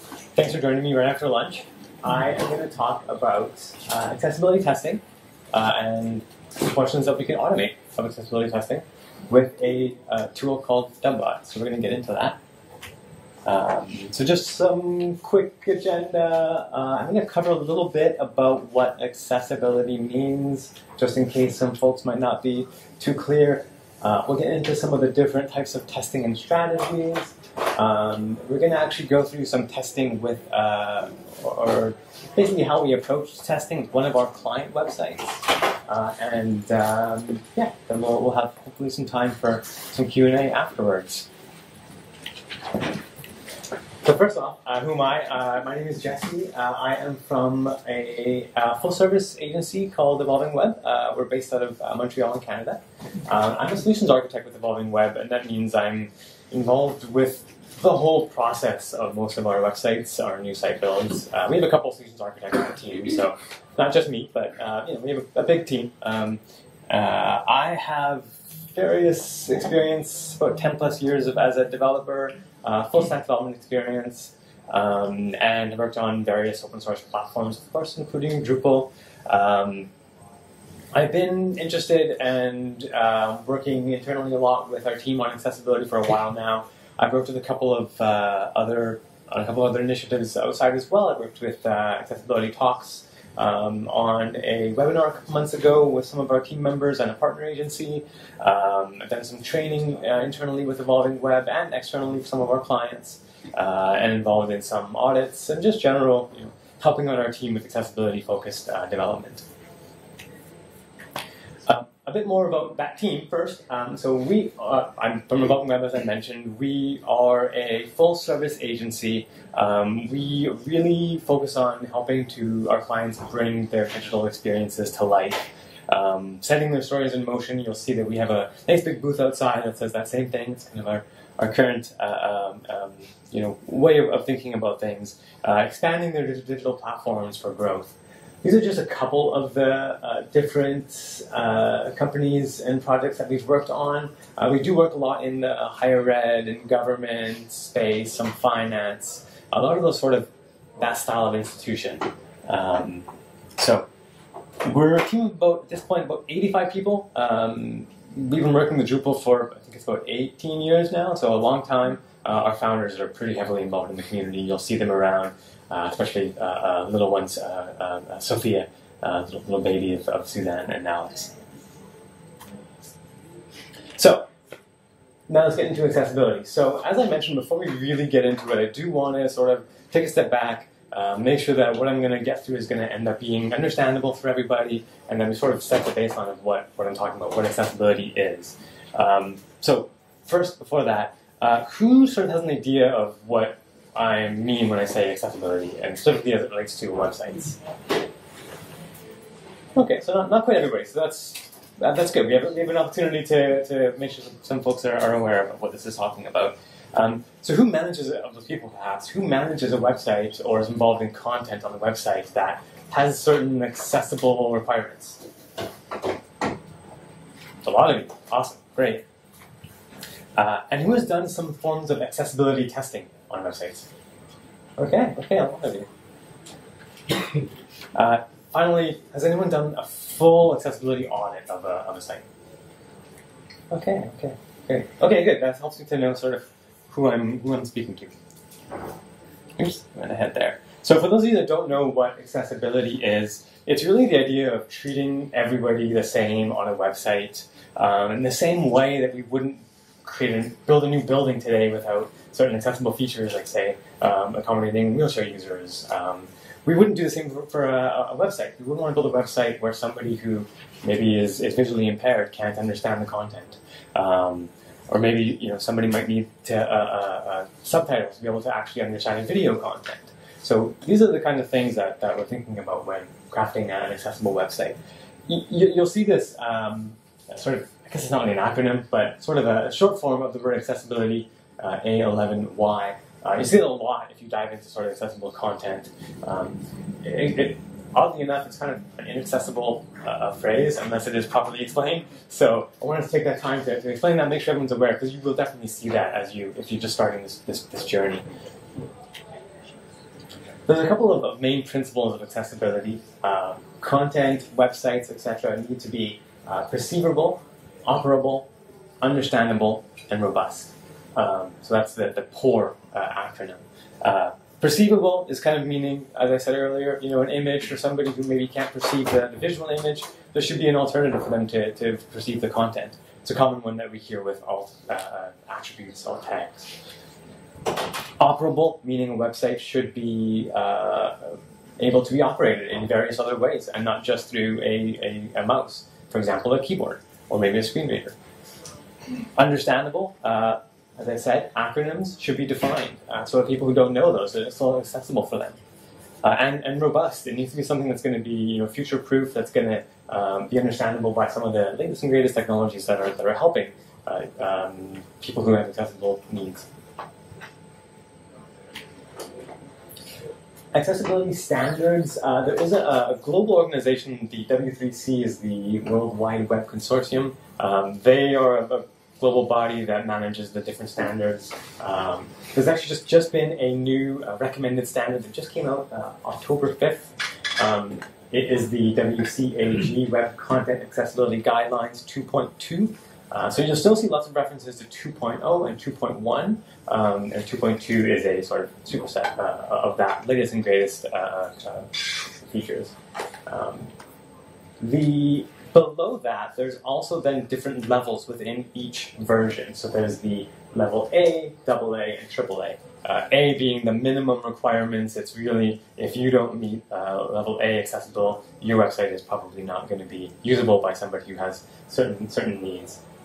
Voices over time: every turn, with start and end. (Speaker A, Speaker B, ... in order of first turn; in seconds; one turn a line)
Speaker A: 0.4-12.4
Speaker A: 13.5-41.3
Speaker A: 44.0-79.9
Speaker A: 80.9-109.5
Speaker A: 111.7-153.1
Speaker A: 153.6-153.9
Speaker A: 154.6-171.3
Speaker A: 174.0-174.3
Speaker A: 175.3-197.6
Speaker A: 199.8-215.2
Speaker A: 217.6-219.0
Speaker A: 220.4-223.9
Speaker A: 224.8-225.9
Speaker A: 227.9-232.2
Speaker A: 233.7-238.1
Speaker A: 239.6-298.3
Speaker A: 300.7-308.5
Speaker A: 309.0-326.7
Speaker A: 328.2-338.1
Speaker A: 339.4-345.6
Speaker A: 346.2-356.7
Speaker A: 360.7-392.9
Speaker A: 393.5-393.9
Speaker A: 394.8-413.0